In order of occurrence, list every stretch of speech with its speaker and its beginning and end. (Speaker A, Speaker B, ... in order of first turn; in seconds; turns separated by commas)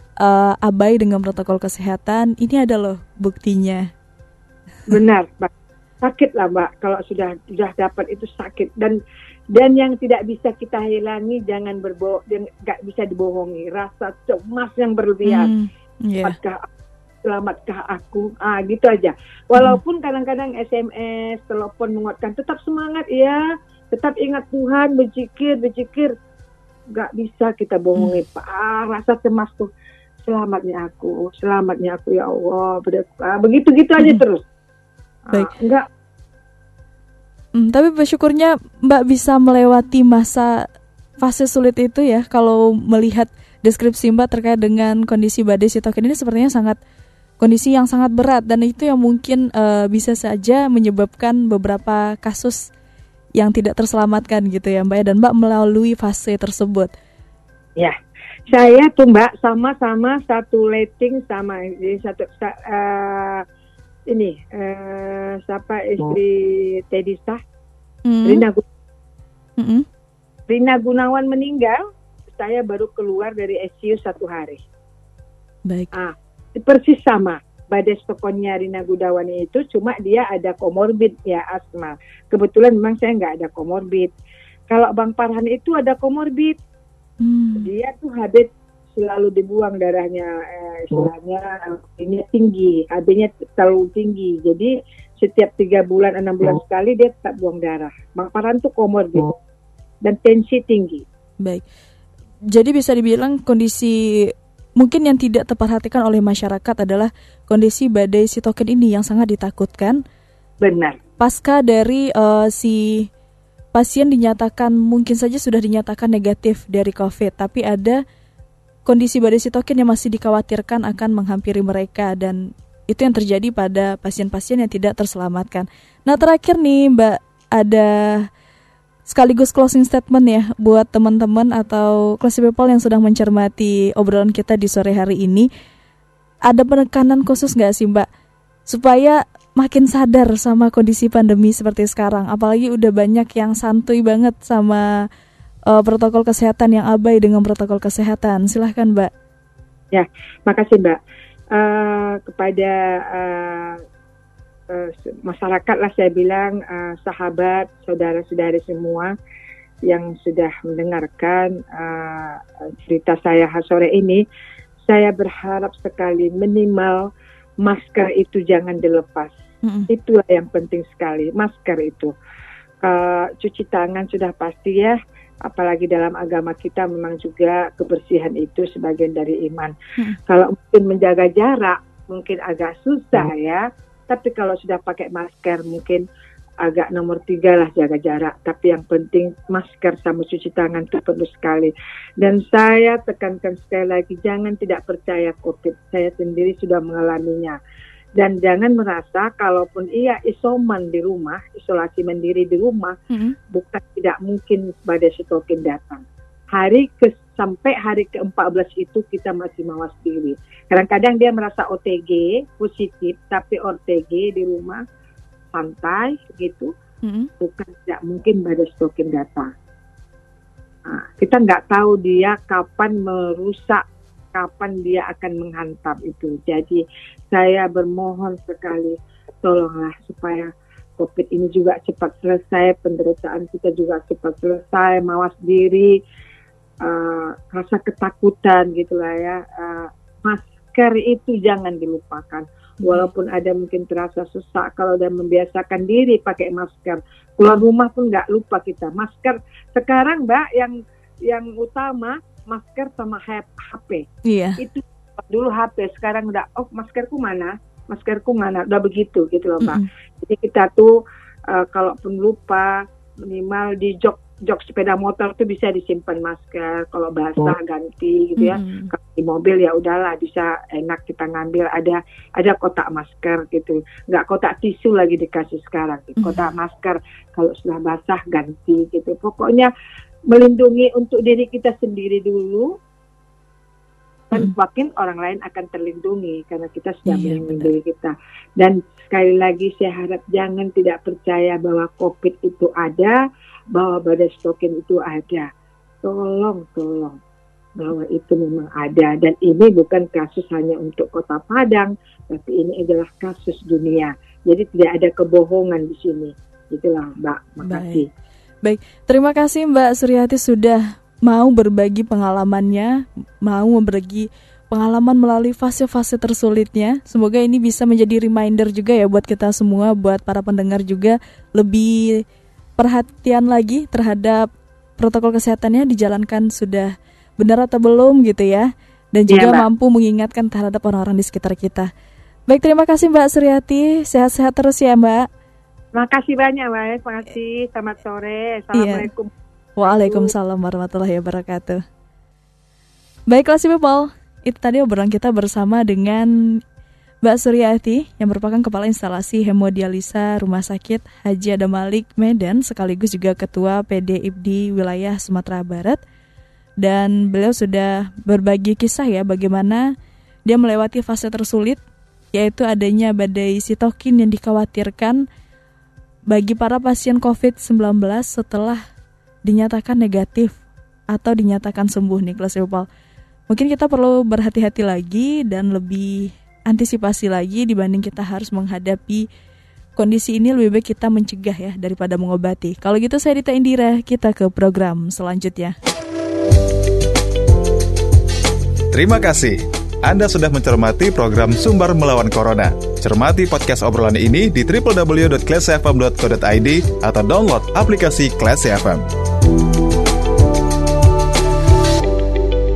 Speaker A: 0.2-3.9, Speaker B: 4.9-5.5, Speaker B: 6.0-9.0, Speaker B: 9.5-15.5, Speaker A: 15.2-16.4, Speaker B: 16.2-16.7, Speaker B: 17.2-23.4, Speaker B: 23.9-26.1, Speaker B: 26.9-29.7, Speaker B: 30.2-34.4, Speaker B: 35.3-35.8, Speaker A: 37.5-40.6, Speaker A: 41.2-46.8, Speaker A: 47.4-52.6, Speaker A: 53.4-56.9, Speaker B: 58.5-63.4, Speaker B: 64.1-67.4, Speaker A: 68.0-68.4, Speaker B: 68.2-68.6, Speaker A: 69.6-69.8, Speaker B: 70.5-74.6, Speaker A: 75.7-75.9, Speaker B: 75.9-84.1, Speaker B: 84.7-86.5, Speaker A: 87.2-87.7, Speaker B: 87.6-99.3, Speaker B: 100.0-101.0, Speaker A: 102.5-110.0, Speaker B: 110.6-111.0, Speaker A: 111.2-113.1, Speaker A: 113.7-118.0, Speaker A: 118.8-128.3, Speaker A: 129.1-135.5, Speaker A: 136.5-138.1, Speaker A: 138.7-144.8, Speaker A: 145.7-149.1, Speaker B: 149.9-151.0, Speaker B: 151.5-153.8, Speaker B: 154.7-159.1, Speaker B: 159.8-164.2, Speaker B: 164.9-167.1, Speaker B: 167.6-169.3, Speaker A: 169.6-169.9, Speaker B: 169.9-172.1, Speaker B: 172.8-179.7, Speaker B: 180.3-186.0, Speaker B: 186.6-197.6, Speaker B: 198.2-202.9, Speaker A: 203.1-203.3, Speaker B: 203.5-206.0, Speaker B: 206.5-214.8, Speaker B: 215.5-216.7, Speaker A: 217.0-217.3, Speaker B: 217.4-219.5, Speaker B: 220.8-235.9, Speaker B: 236.8-254.0, Speaker A: 254.2-254.6, Speaker B: 254.6-260.9, Speaker B: 261.5-279.7, Speaker A: 268.4-268.9, Speaker A: 276.2-276.5, Speaker B: 280.3-282.7, Speaker B: 284.3-293.2, Speaker A: 287.1-287.7, Speaker B: 293.7-295.5, Speaker B: 296.0-297.2, Speaker B: 297.8-308.1, Speaker A: 307.6-308.0, Speaker A: 308.6-322.2, Speaker A: 322.8-331.9, Speaker B: 329.3-329.6, Speaker A: 332.5-335.3, Speaker B: 335.9-339.3, Speaker A: 338.7-339.1, Speaker A: 339.8-341.8, Speaker B: 339.8-340.3, Speaker A: 343.3-346.6, Speaker A: 347.2-356.0, Speaker A: 356.8-359.9, Speaker A: 360.4-361.8, Speaker A: 362.3-365.2, Speaker A: 366.3-368.8, Speaker A: 369.4-370.6, Speaker A: 371.1-372.9, Speaker A: 373.5-379.2, Speaker A: 379.9-385.7, Speaker C: 388.9-399.1